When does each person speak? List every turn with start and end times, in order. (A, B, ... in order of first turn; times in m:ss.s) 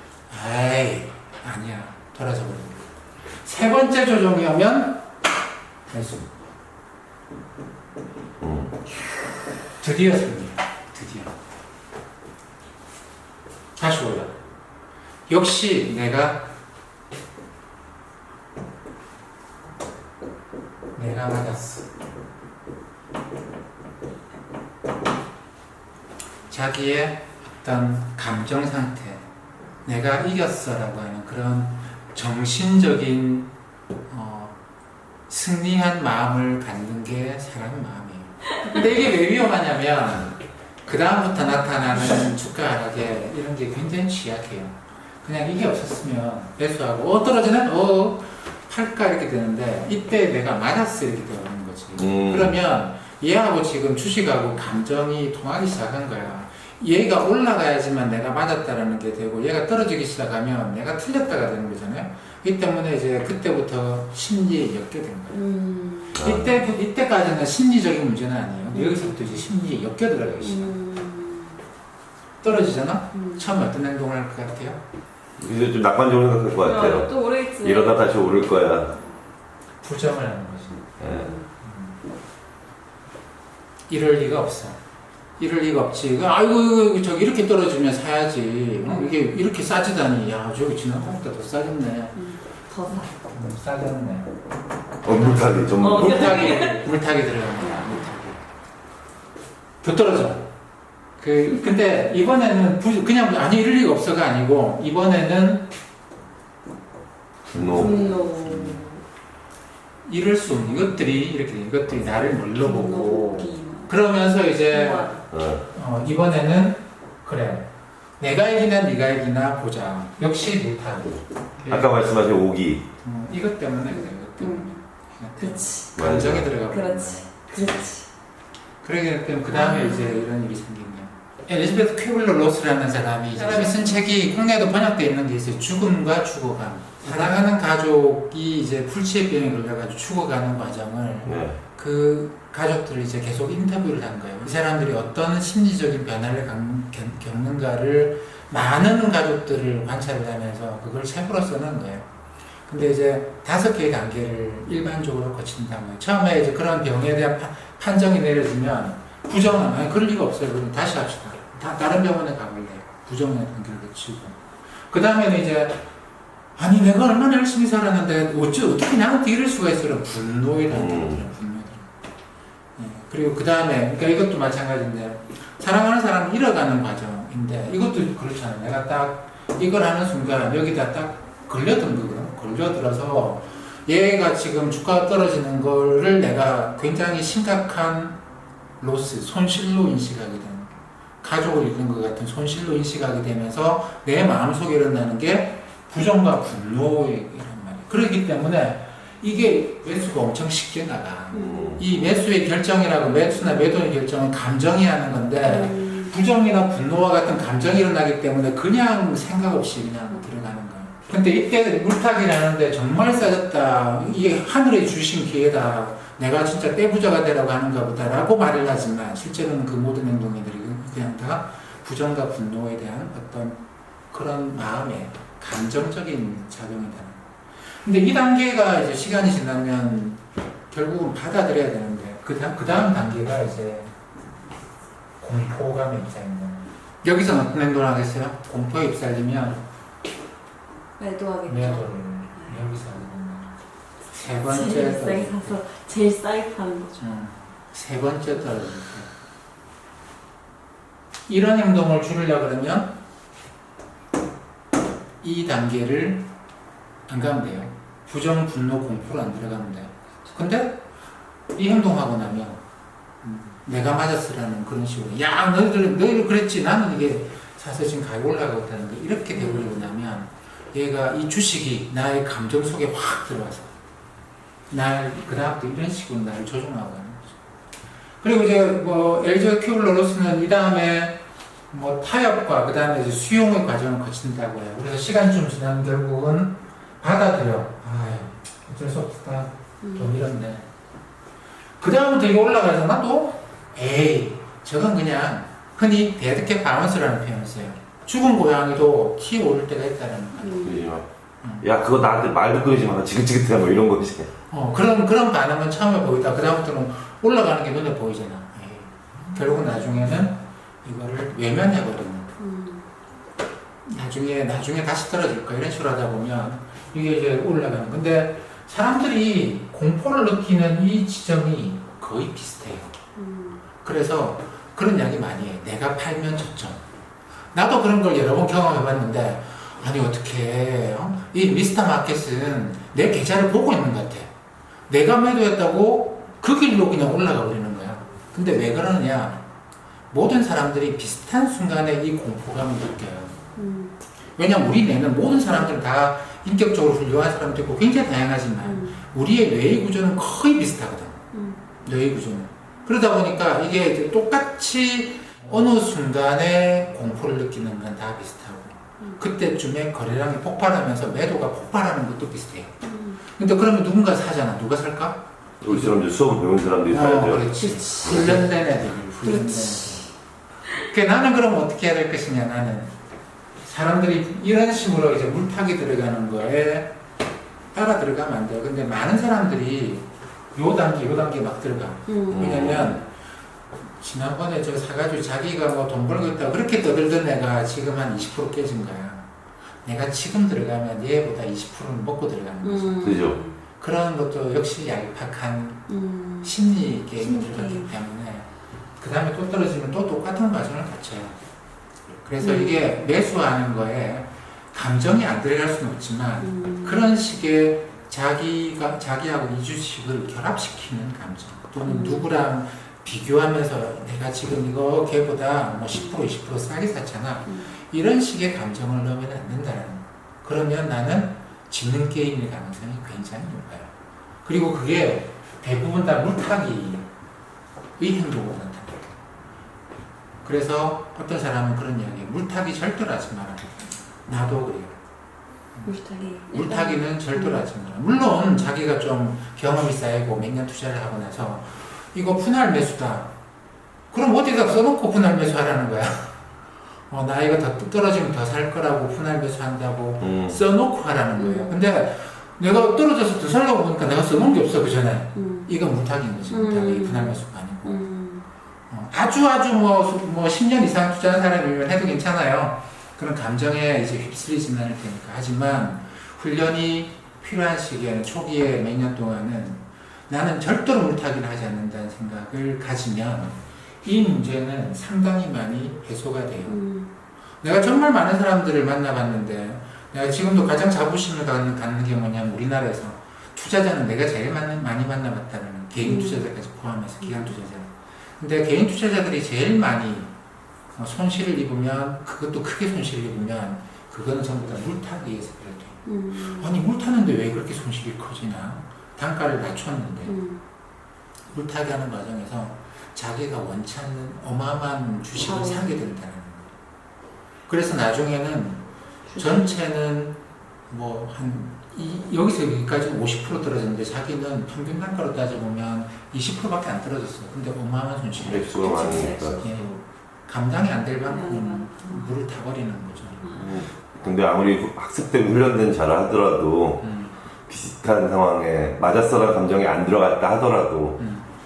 0:00.3-0:02.8 A
0:03.4-0:05.1 A
0:05.9-0:06.3 A
0:08.4-0:08.7 B
0:09.8-0:11.3 A
0:13.8-0:14.4 A
0:15.3-0:16.5 A
0:21.0-0:21.8 A
0:26.5-0:29.2 A
0:29.8-0:33.5 A
0:34.1-0:34.6 A
0:35.3-1:05.4 A
0:52.0-0:52.5 B
1:05.3-1:06.2 C
1:06.2-1:10.7 A
1:06.2-1:06.4 B
1:08.7-1:09.4 C
1:10.4-1:11.6 C
1:12.4-1:14.8 A
1:13.1-1:13.4 C
1:15.4-1:17.1 B
1:16.6-1:18.2 C
1:17.6-1:18.9 B
1:19.8-1:20.9 A
1:21.0-1:21.3 B
1:21.0-1:21.4 C
1:21.6-1:21.9 A
1:23.9-1:24.8 A
1:25.4-1:32.2 A
1:28.8-1:29.2 C
1:32.2-1:33.1 C
1:32.9-1:34.4 A
1:35.0-1:38.4 A
1:35.0-1:36.6 B
1:35.8-1:36.9 C
1:37.6-1:38.0 C
1:39.8-1:40.5 A
1:41.2-1:45.7 A
1:47.5-1:48.8 A
1:47.5-1:48.1 B
1:47.7-1:49.0 C
1:50.0-1:55.1 A
1:52.6-1:53.9 C
1:54.7-1:55.2 C
1:55.3-1:55.6 B
1:55.6-1:57.7 A
1:58.2-2:02.0 A
2:01.7-2:02.8 B
2:03.0-2:07.9 A
2:03.9-2:04.7 C
2:05.4-2:05.9 C
2:06.0-2:06.5 B
2:06.7-2:08.0 C
2:08.8-2:32.1 A
2:09.5-2:10.2 C
2:13.4-2:14.0 C
2:21.2-2:21.6 B
2:32.7-2:45.8 A
2:46.6-2:51.9 A
2:50.7-2:51.2 B
2:52.8-3:08.2 A
3:08.8-3:43.6 A
3:21.3-3:21.7 C
3:21.3-3:22.0 B
3:25.4-3:26.1 C
3:44.1-3:47.2 A
3:47.8-3:53.9 A
3:55.2-3:59.6 A
4:01.0-4:01.9 C
4:01.5-4:03.5 A
4:04.1-4:05.6 A
4:04.3-4:07.0 C
4:07.0-4:09.1 A
4:11.3-4:13.0 A
4:15.2-4:16.3 A
4:17.1-4:20.8 A
4:21.5-4:22.6 A
4:23.2-4:33.7 A
4:29.4-4:29.8 C
4:34.7-4:37.4 A
4:38.2-4:41.2 A
4:41.7-4:50.6 A
4:49.8-4:50.1 C
4:51.8-5:00.7 A
5:00.4-5:00.9 C
5:00.6-5:01.0 B
5:01.6-5:04.3 B
5:04.5-5:12.3 A
5:12.4-5:12.8 C
5:13.8-5:22.9 A
5:23.2-5:23.6 C
5:23.8-5:26.8 A
5:27.5-5:34.3 A
5:34.9-5:39.4 A
5:40.1-5:43.4 A
5:43.6-5:43.9 C
5:44.4-5:51.2 A
5:48.6-5:49.0 C
5:51.3-5:51.6 C
5:51.8-6:06.0 A
6:02.8-6:03.2 C
6:05.6-6:07.5 B
6:06.9-6:10.1 A
6:07.6-6:08.4 C
6:08.1-6:08.4 B
6:09.2-6:10.1 C
6:10.8-6:12.9 A
6:13.6-6:16.9 A
6:17.7-6:23.0 A
6:22.1-6:22.6 C
6:22.3-6:23.0 B
6:24.0-6:29.2 A
6:29.8-6:33.2 A
6:32.6-6:33.5 C
6:33.0-6:33.4 B
6:33.8-6:35.8 A
6:35.9-6:36.6 C
6:36.4-6:41.4 A
6:37.2-6:37.9 C
6:42.2-7:03.9 A
6:42.4-6:42.8 C
6:46.4-6:47.1 C
6:51.9-6:52.3 C
7:04.4-7:07.1 A
7:08.0-7:09.1 A
7:10.4-7:14.9 A
7:15.8-7:17.6 C
7:16.5-7:23.3 A
7:24.1-7:26.3 A
7:27.1-7:38.1 A
7:30.2-7:30.6 B
7:31.4-7:31.8 C
7:35.4-7:35.7 C
7:36.5-7:38.5 C
7:38.9-7:56.8 A
7:56.7-7:57.1 C
7:57.6-8:10.3 A
8:06.0-8:06.5 C
8:07.2-8:07.5 C
8:10.9-8:20.4 A
8:16.0-8:16.7 C
8:20.2-8:20.6 C
8:21.5-8:26.7 A
8:25.5-8:26.1 C
8:27.7-8:28.8 A
8:29.3-8:29.8 C
8:29.4-8:30.4 A
8:30.9-8:43.7 A
8:38.4-8:39.6 B
8:38.8-8:39.7 C
8:41.2-8:42.3 C
8:43.6-8:47.0 B
8:47.0-8:47.3 A
8:47.7-8:51.2 B
8:51.2-8:51.5 A